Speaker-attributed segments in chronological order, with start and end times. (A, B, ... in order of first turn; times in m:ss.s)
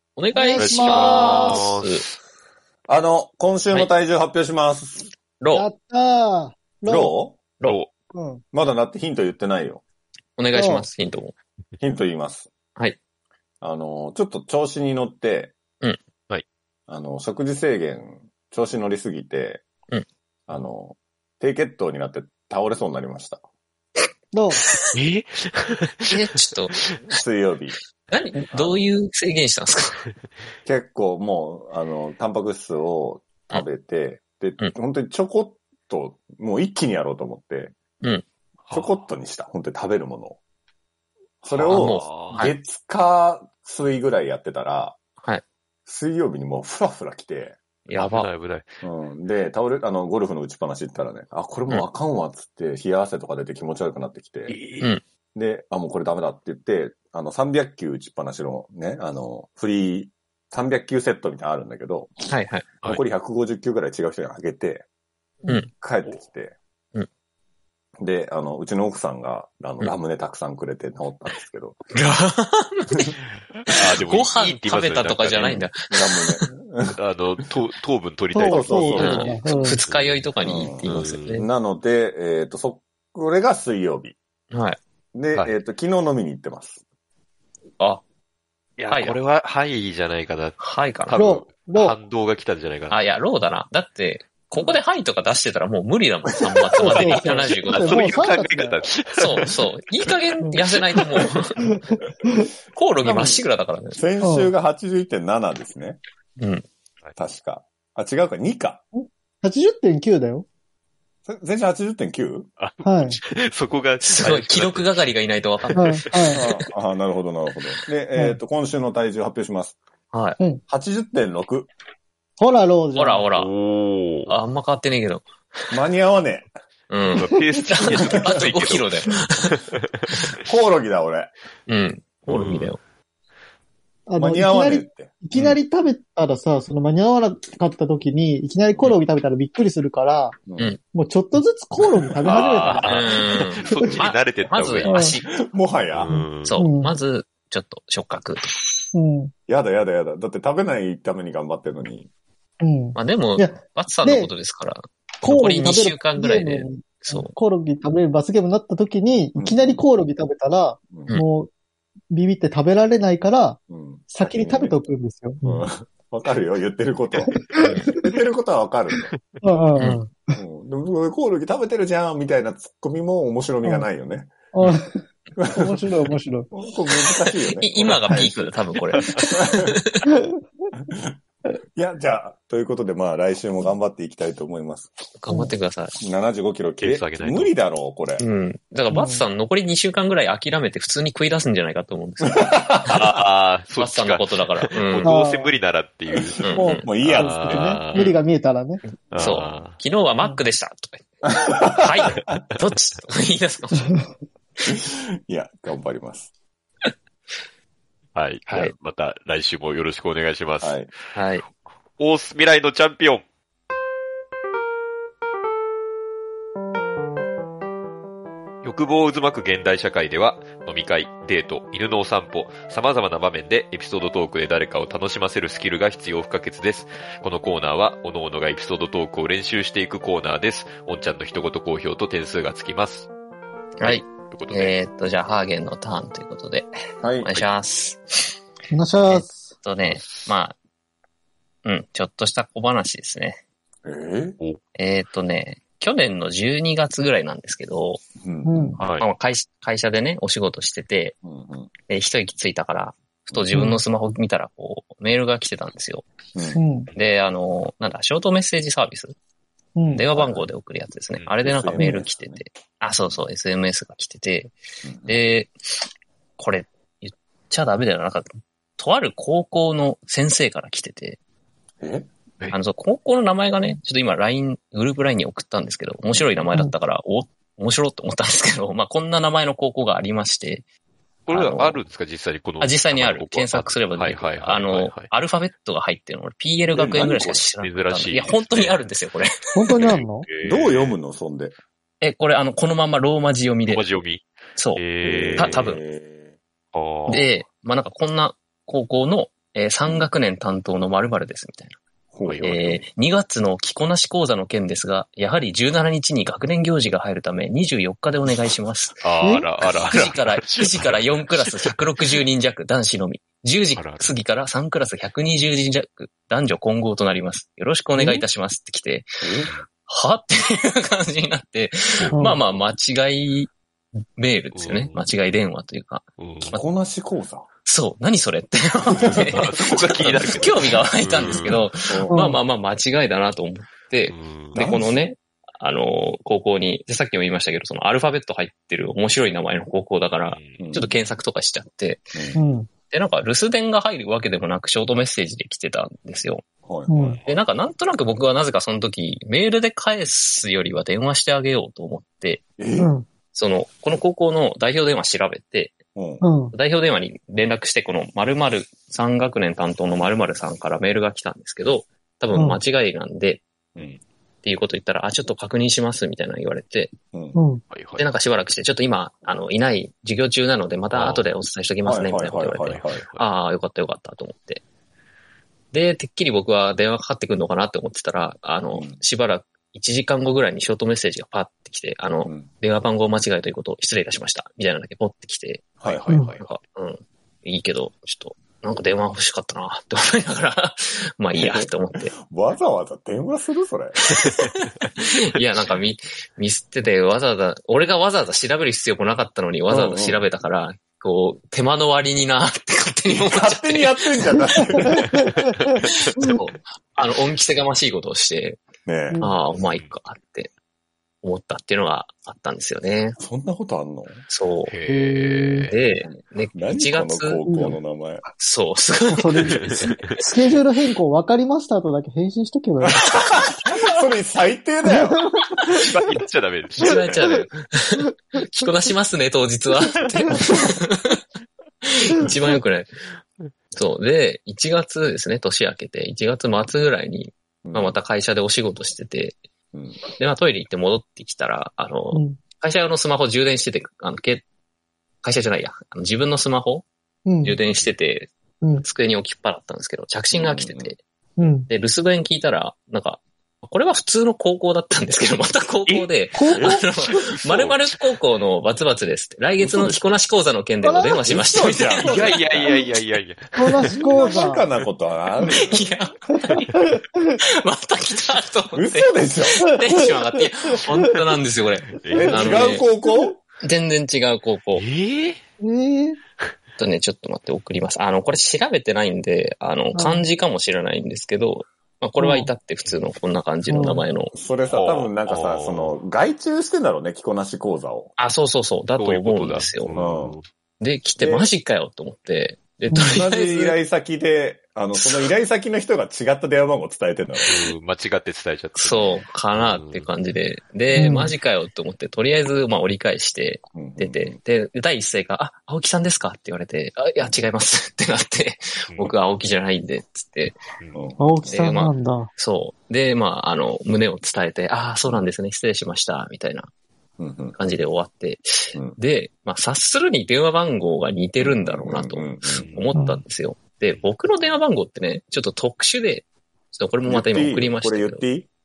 0:00.2-0:02.0 A
0:00.3-0:01.7 B
0:00.6-0:02.1 C
0:02.9-0:05.1 D
0:05.4-0:05.7 A
0:05.5-0:07.1 B
0:06.9-0:07.4 D
0:07.6-0:07.9 C
0:08.1-0:08.4 B
0:08.5-0:09.8 D
0:10.4-0:11.4 A
0:10.5-0:10.8 B
0:11.8-0:12.5 D
0:13.6-0:15.5 D
0:16.9-0:19.6 D
0:20.5-0:23.4 D
0:24.3-0:24.6 B
0:24.9-0:26.2 C
0:26.1-0:26.8 A
0:27.1-0:27.8 D
0:28.1-0:30.0 A
0:28.5-0:28.8 D
0:30.6-0:37.7 D
0:38.7-0:39.0 C
0:38.7-0:40.4 D
0:41.4-0:45.0 D
0:41.5-0:42.5 C
0:41.7-0:42.5 A
0:45.2-0:45.4 A
0:45.8-0:47.6 D
0:47.9-0:48.3 A
0:47.9-0:48.7 C
0:48.8-0:54.6 D
0:54.5-0:54.9 C
0:55.3-1:02.3 D
1:02.3-1:02.7 A
1:02.8-1:04.8 D
1:05.7-1:06.6 D
1:08.0-1:11.8 D
1:11.9-1:13.1 A
1:13.7-1:15.7 C
1:13.7-1:16.4 A
1:15.9-1:17.0 D
1:16.9-1:20.2 C
1:18.3-1:19.8 B
1:18.4-1:19.3 D
1:18.9-1:21.4 A
1:20.4-1:24.2 D
1:20.9-1:21.4 C
1:24.5-1:24.8 A
1:25.1-1:26.8 D
1:28.8-1:33.0 C
1:28.9-1:29.2 A
1:30.6-1:31.2 A
1:31.2-1:32.0 B
1:32.9-1:38.1 A
1:36.8-1:38.8 B
1:36.8-1:40.6 C
1:39.1-1:41.4 A
1:41.6-1:42.5 B
1:42.7-1:44.0 A
1:43.0-1:43.4 D
1:43.9-1:46.0 D
1:44.2-1:44.5 B
1:46.4-1:46.6 A
1:47.2-1:48.8 D
1:48.9-1:50.4 B
1:51.2-1:52.5 D
1:52.6-1:55.0 C
1:52.8-1:53.2 B
1:54.0-1:56.0 A
1:55.6-1:56.7 C
1:55.8-1:56.4 B
1:56.3-1:59.8 D
1:58.1-1:58.4 B
2:00.1-2:00.4 A
2:00.7-2:01.7 D
2:02.4-2:03.2 B
2:02.9-2:03.5 A
2:03.3-2:04.3 C
2:04.3-2:05.3 A
2:05.7-2:06.5 D
2:06.9-2:09.5 A
2:07.1-2:10.1 C
2:10.4-2:11.3 D
2:11.7-2:12.8 A
2:12.3-2:12.7 C
2:14.1-2:20.4 B
2:14.2-2:15.1 D
2:20.4-2:20.7 D
2:20.9-2:22.9 B
2:22.2-2:25.0 C
2:22.8-2:25.3 A
2:24.8-2:25.2 B
2:25.4-2:26.1 D
2:25.9-2:26.6 C
2:26.4-2:28.5 A
2:26.6-2:27.0 B
2:28.9-2:29.3 B
2:29.5-2:32.1 D
2:32.6-2:34.3 B
2:32.9-2:37.3 A
2:35.2-2:41.5 B
2:39.4-2:39.8 D
2:40.9-2:41.2 D
2:42.1-2:45.7 B
2:43.7-2:44.8 D
2:45.4-2:49.1 D
2:47.3-2:48.1 B
2:49.1-2:49.4 C
2:49.4-2:50.4 B
2:50.4-2:54.5 D
2:54.5-2:56.5 B
2:55.4-2:55.9 D
2:56.5-2:59.7 D
2:57.6-3:00.0 A
3:01.8-3:04.9 D
3:05.2-3:06.0 A
3:06.0-3:08.2 D
3:06.8-3:07.5 C
3:08.2-3:12.6 A
3:08.9-3:09.2 B
3:12.3-3:13.1 D
3:12.8-3:18.2 C
3:13.8-3:15.1 A
3:15.0-3:15.6 B
3:16.1-3:17.8 D
3:16.4-3:16.8 A
3:16.6-3:18.8 B
3:19.1-3:19.8 C
3:19.1-3:24.0 A
3:19.2-3:19.6 D
3:21.2-3:21.8 D
3:24.7-3:26.3 D
3:28.1-3:30.9 C
3:28.5-3:28.7 A
3:30.6-3:30.9 D
3:31.1-3:31.4 A
3:32.0-3:33.2 C
3:38.6-3:53.1 C
3:53.8-3:56.7 A
3:53.8-3:54.8 C
3:57.0-3:57.4 D
3:57.2-3:58.3 A
3:58.7-3:59.5 B
3:59.1-4:00.6 A
4:01.6-4:03.4 A
4:03.8-4:04.4 D
4:04.8-4:08.0 A
4:08.2-4:08.8 D
4:08.4-4:08.8 B
4:08.8-4:09.1 C
4:09.0-4:11.2 A
4:11.2-4:11.7 D
4:11.9-4:16.0 A
4:13.5-4:13.8 B
4:16.3-4:16.6 D
4:16.5-4:16.9 B
4:16.9-4:19.1 A
4:19.8-4:20.0 B
4:19.9-4:24.5 A
4:20.1-4:20.5 D
4:21.4-4:22.4 D
4:21.8-4:22.0 B
4:24.8-4:25.2 D
4:25.0-4:25.5 A
4:26.4-4:31.2 A
4:31.8-4:32.1 D
4:32.5-4:40.6 A
4:36.1-4:36.5 D
4:41.3-4:45.1 C
4:41.3-4:41.8 A
4:42.6-4:49.9 A
4:46.7-4:47.4 D
4:47.0-4:48.8 C
4:49.5-4:50.3 B
4:49.7-4:51.0 C
4:50.4-4:51.5 D
4:52.0-4:53.9 A
4:53.7-4:55.7 C
4:54.6-4:54.8 A
4:55.0-4:56.3 D
4:55.4-4:55.8 A
4:56.7-4:57.2 C
4:57.1-5:01.8 A
4:59.8-5:00.1 D
5:02.1-5:02.7 D
5:02.2-5:02.8 C
5:02.4-5:09.0 A
5:09.0-5:11.7 C
5:09.2-5:09.5 B
5:09.6-5:19.1 A
5:13.7-5:14.1 C
5:17.9-5:18.2 B
5:19.2-5:19.5 D
5:19.9-5:23.5 A
5:22.1-5:22.4 B
5:24.1-5:26.6 A
5:24.5-5:25.0 C
5:26.2-5:26.5 C
5:26.5-5:27.5 D
5:27.6-5:42.1 A
5:28.9-5:31.7 C
5:31.9-5:32.2 D
5:32.1-5:32.4 B
5:34.1-5:34.6 C
5:34.5-5:35.0 D
5:40.3-5:40.6 C
5:40.6-5:40.9 D
5:42.1-5:42.4 D
5:42.3-5:42.7 B
5:42.9-5:46.4 A
5:46.6-5:47.2 D
5:46.9-5:47.2 B
5:47.2-5:52.4 A
5:52.6-5:52.9 D
5:52.8-5:53.0 B
5:53.3-5:55.8 A
5:55.9-5:56.2 D
5:56.2-5:56.5 B
5:56.5-6:03.4 A
6:02.3-6:02.6 B
6:03.7-6:04.0 D
6:04.4-6:06.9 A
6:07.1-6:07.4 D
6:07.3-6:07.6 B
6:07.7-6:08.1 C
6:08.0-6:14.6 A
6:10.9-6:11.3 C
6:11.8-6:13.0 D
6:12.8-6:13.2 C
6:15.7-6:32.1 A
6:18.7-6:19.0 D
6:25.8-6:26.4 D
6:26.1-6:26.3 B
6:31.3-6:34.0 D
6:34.1-6:34.7 A
6:35.2-6:44.9 A
6:39.7-6:40.2 D
6:43.1-6:45.2 D
6:46.2-6:48.6 A
6:48.8-6:49.2 D
6:49.1-6:49.4 B
6:49.2-6:50.5 A
6:51.2-6:53.2 A
6:53.2-6:54.2 D
6:54.3-6:54.7 A
6:54.7-6:55.8 C
6:54.8-6:55.7 B
6:55.6-6:57.4 A
6:56.0-6:58.2 D
6:57.5-6:57.8 B
6:58.4-6:59.6 A
6:59.1-7:03.0 B
6:59.5-7:00.2 C
7:03.0-7:05.2 D
7:04.8-7:05.2 B
7:05.8-7:07.1 C
7:06.8-7:11.2 A
7:11.8-7:12.9 A
7:13.7-7:19.4 A
7:17.6-7:18.0 D
7:19.7-7:20.0 D
7:20.1-7:24.4 A
7:22.1-7:22.4 B
7:25.2-7:26.8 A
7:27.2-7:27.6 B
7:27.4-7:28.3 A
7:28.8-7:31.0 A
7:30.3-7:30.9 D
7:31.4-7:31.7 B
7:31.7-7:42.4 A
7:35.9-7:37.8 C
7:36.3-7:36.8 B
7:39.6-7:40.0 D
7:40.8-7:41.2 B
7:41.2-7:42.8 D
7:42.0-7:44.0 C
7:43.6-7:44.6 B
7:44.0-7:45.9 D
7:45.5-7:46.7 A
7:47.6-7:52.8 A
7:48.7-7:50.1 D
7:49.8-7:50.2 B
7:52.0-7:52.7 C
7:52.1-7:53.3 B
7:52.1-7:53.4 D
7:53.6-7:54.8 A
7:54.7-7:55.4 C
7:55.6-7:56.2 B
7:56.8-8:04.3 A
7:59.9-8:00.2 B
8:02.2-8:02.5 B
8:03.7-8:04.0 B
8:04.3-8:08.1 D
8:04.7-8:06.0 C
8:08.2-8:10.0 A
8:09.0-8:10.5 C
8:09.9-8:10.4 D
8:10.8-8:13.8 A
8:11.2-8:11.5 D
8:12.9-8:13.2 B
8:13.1-8:17.7 D
8:14.9-8:15.3 A
8:17.5-8:20.1 C
8:18.8-8:30.6 A
8:20.9-8:21.3 B
8:23.7-8:24.4 D
8:30.9-8:31.4 D
8:31.2-8:32.3 B
8:31.4-8:36.7 A
8:35.0-8:35.3 D
8:37.2-8:37.6 D
8:37.6-8:48.3 A
8:41.4-8:42.7 D
8:42.5-8:42.9 C
8:42.9-8:43.2 B
8:47.0-8:48.5 D